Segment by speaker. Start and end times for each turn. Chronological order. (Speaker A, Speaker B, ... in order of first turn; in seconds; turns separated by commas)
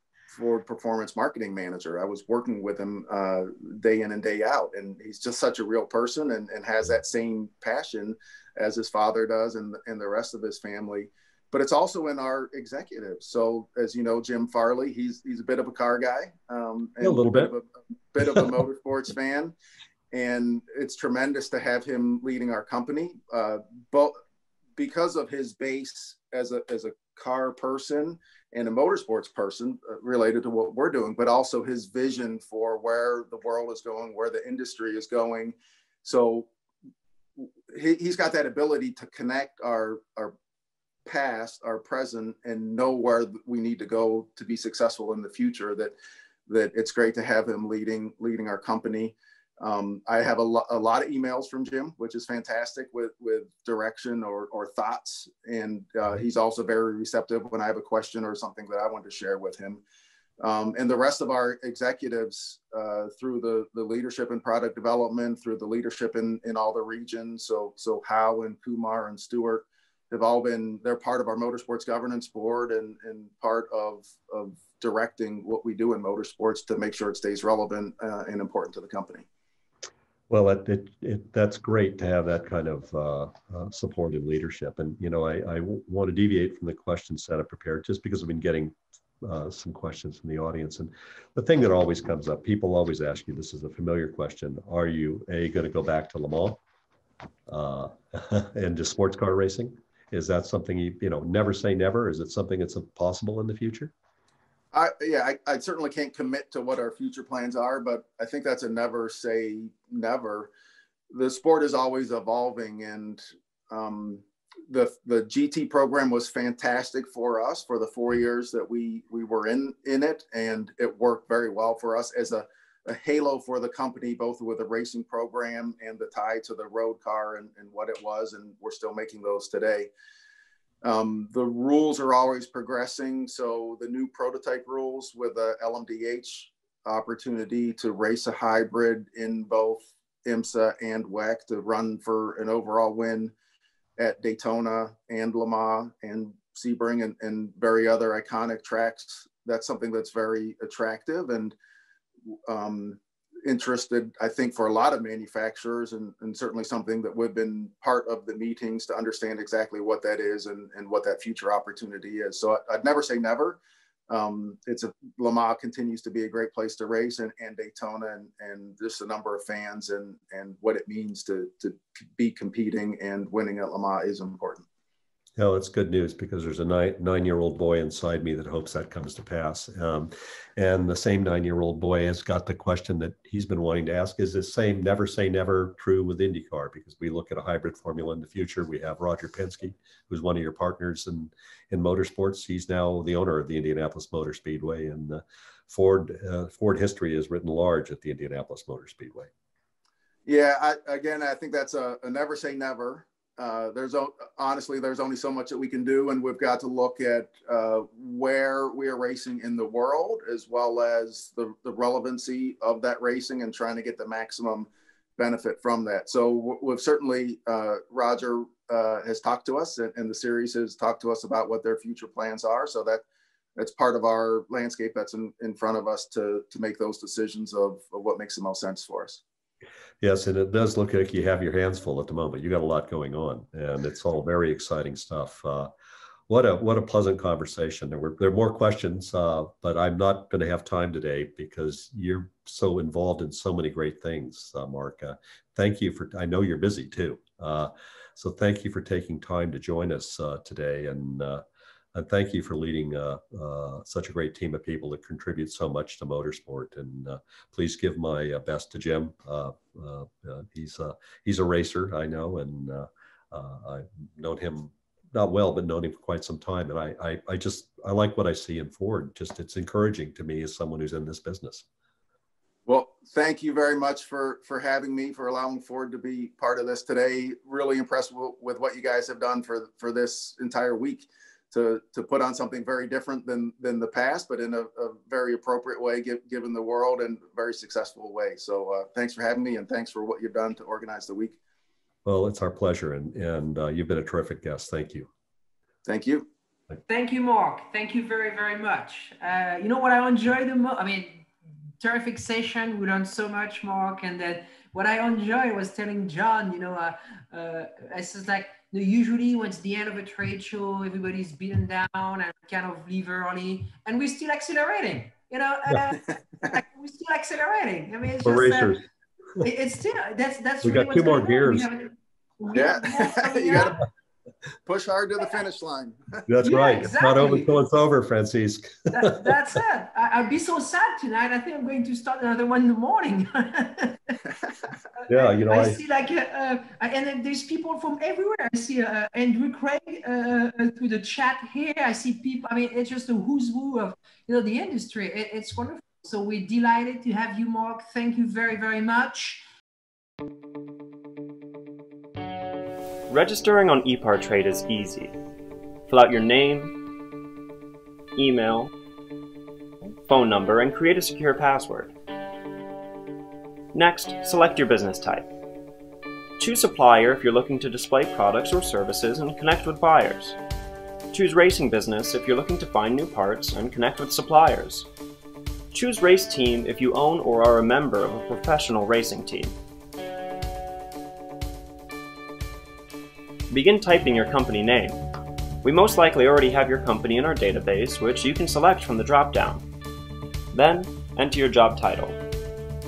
Speaker A: 0.3-19.5, Speaker B: 17.0-17.5, Speaker A: 20.1-24.1, Speaker A: 24.8-36.5, Speaker A: 37.4-40.3, Speaker A: 41.0-45.9, Speaker A: 46.5-59.8, Speaker A: 60.4-79.2, Speaker B: 80.3-96.6, Speaker B: 97.5-103.9, Speaker A: 104.7-110.5, Speaker A: 111.1-129.9, Speaker A: 130.8-143.3, Speaker A: 144.0-151.5, Speaker A: 152.5-174.7, Speaker B: 175.4-199.3, Speaker A: 200.2-223.0, Speaker A: 223.6-229.2, Speaker B: 230.0-235.7, Speaker B: 236.3-251.4, Speaker B: 251.9-271.6, Speaker A: 272.6-291.4, Speaker B: 292.0-295.1, Speaker A: 295.9-296.3, Speaker C: 296.9-301.3, Speaker C: 301.8-318.8, Speaker B: 318.2-318.8, Speaker C: 319.4-323.8, Speaker B: 320.6-321.7, Speaker A: 322.5-323.8, Speaker A: 324.6-326.3, Speaker B: 326.3-329.3, Speaker C: 326.4-327.5, Speaker C: 328.9-334.2, Speaker C: 335.0-349.4, Speaker B: 335.1-335.8, Speaker D: 353.1-355.1, Speaker D: 355.9-356.7, Speaker D: 358.2-358.7, Speaker D: 360.1-361.9, Speaker D: 363.7-365.3, Speaker D: 366.4-370.4, Speaker D: 371.1-374.9, Speaker D: 375.7-379.5, Speaker D: 383.5-385.0, Speaker D: 385.6-389.6, Speaker D: 390.5-392.2